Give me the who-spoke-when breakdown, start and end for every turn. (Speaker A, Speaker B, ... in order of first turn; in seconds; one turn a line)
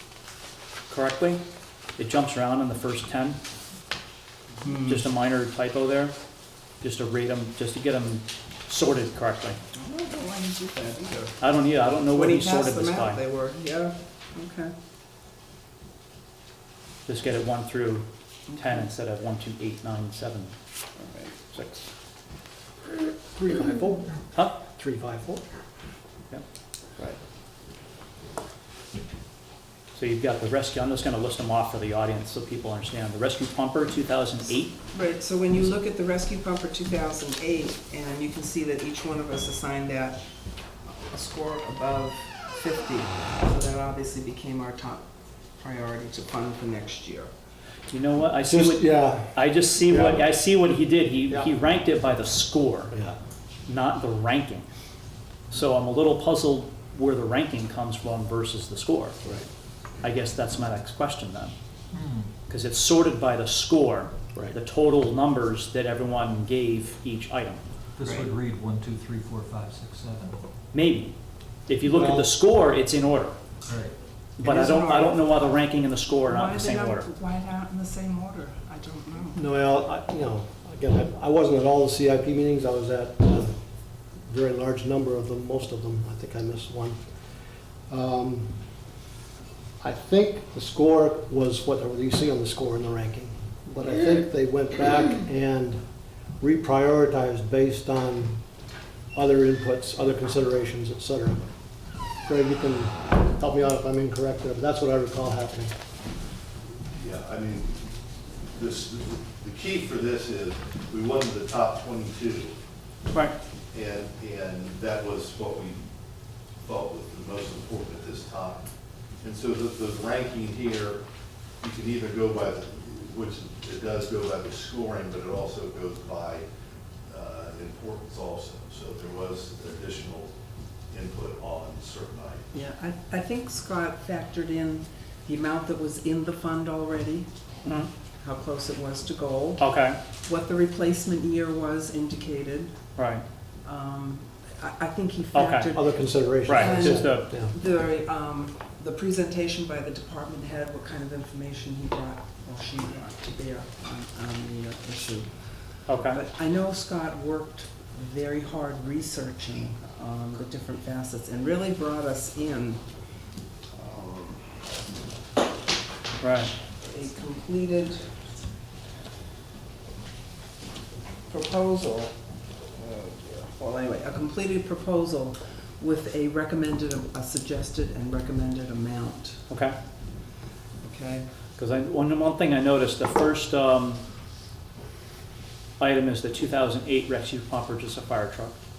Speaker A: 0.9-1.4
Speaker A: 2.0-3.4
Speaker B: 4.6-5.0
Speaker A: 4.8-6.1
Speaker A: 6.8-9.6
Speaker B: 9.7-11.4
Speaker A: 11.4-13.2
Speaker B: 12.1-14.7
Speaker A: 17.1-20.5
Speaker B: 18.5-18.8
Speaker B: 21.0-21.8
Speaker C: 23.3-25.4
Speaker A: 29.9-34.7
Speaker B: 34.9-40.2
Speaker B: 41.1-45.0
Speaker B: 45.6-47.3
Speaker A: 47.9-53.0
Speaker C: 48.5-50.3
Speaker A: 53.7-54.6
Speaker A: 55.5-59.2
Speaker A: 60.0-61.5
Speaker D: 61.9-62.3
Speaker A: 62.5-67.6
Speaker D: 68.0-70.4
Speaker B: 68.0-68.3
Speaker A: 70.7-71.1
Speaker A: 71.7-73.3
Speaker C: 71.8-72.3
Speaker D: 73.7-73.9
Speaker A: 74.4-77.1
Speaker B: 74.4-75.5
Speaker B: 76.3-79.4
Speaker C: 79.3-83.5
Speaker C: 84.2-87.0
Speaker C: 87.9-88.5
Speaker C: 89.8-95.8
Speaker C: 96.4-98.4
Speaker C: 99.1-101.4
Speaker C: 102.2-105.7
Speaker E: 106.9-107.8
Speaker E: 108.5-112.5
Speaker E: 113.7-115.8
Speaker E: 116.6-118.6
Speaker E: 119.2-121.0
Speaker E: 121.6-126.5
Speaker E: 127.1-130.3
Speaker E: 130.9-132.4
Speaker B: 132.5-137.3
Speaker A: 137.6-137.9
Speaker B: 138.2-139.6
Speaker A: 139.6-140.0
Speaker B: 140.2-142.7
Speaker A: 142.9-143.2
Speaker B: 143.6-155.3
Speaker A: 145.3-145.7
Speaker C: 145.7-147.5
Speaker A: 146.4-147.3
Speaker B: 155.9-162.8
Speaker A: 155.9-156.2
Speaker B: 163.7-164.5
Speaker A: 166.2-166.5
Speaker B: 166.8-168.1
Speaker B: 171.3-172.2
Speaker B: 172.8-179.4
Speaker A: 179.5-179.7
Speaker B: 180.8-181.2
Speaker A: 181.6-184.0
Speaker A: 185.8-188.6